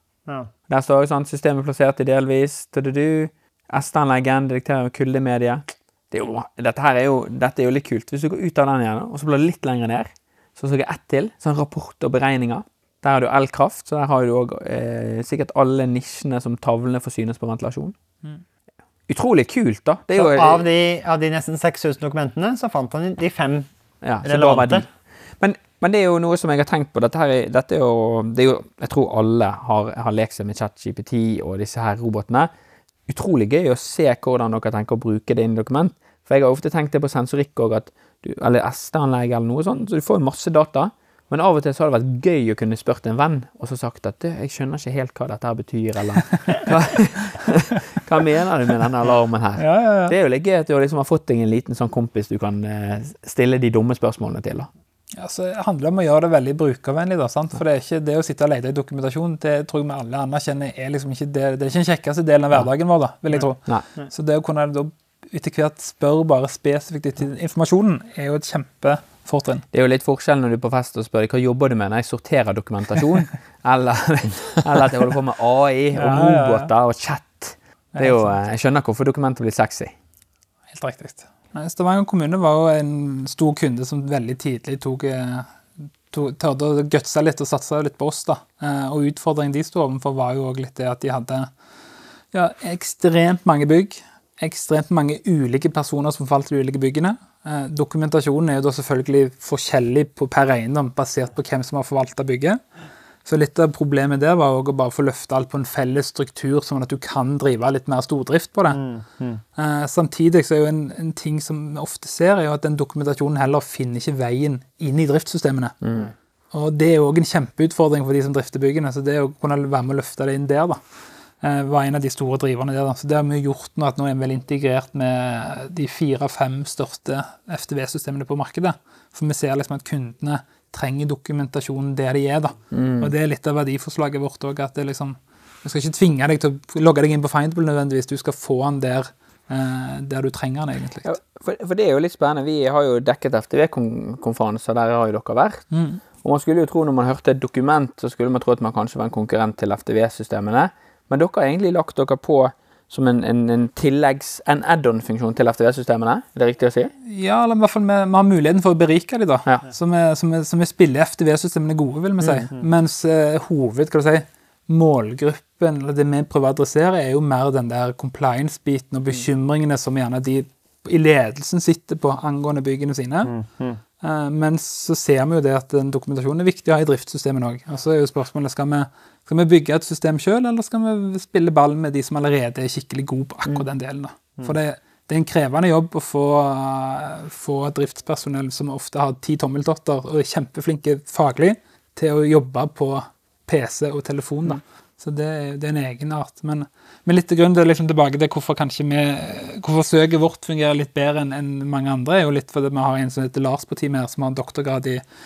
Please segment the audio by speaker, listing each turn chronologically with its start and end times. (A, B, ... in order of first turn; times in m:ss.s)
0:00.7-0:17.9 A
0:19.1-0:20.7 A
0:20.2-0:23.7 B
0:24.0-0:32.5 A
0:24.2-0:24.8 B
0:33.1-0:54.7 A
0:49.6-0:50.1 C
0:55.2-1:09.6 C
1:03.3-1:04.1 B
1:09.7-1:19.9 A
1:16.0-1:16.7 C
1:18.0-1:18.4 C
1:20.7-1:25.5 C
1:26.1-1:31.5 C
1:32.3-1:42.6 C
1:43.2-1:48.8 C
1:48.7-1:49.4 B
1:49.6-1:55.8 C
1:55.8-1:56.1 A
1:56.5-2:00.8 C
2:01.4-2:21.2 C
2:12.7-2:13.1 A
2:21.0-2:36.9 A
2:25.7-2:26.0 C
2:37.0-2:53.3 C
2:42.2-2:42.5 A
2:53.2-2:53.8 B
2:54.0-3:25.0 C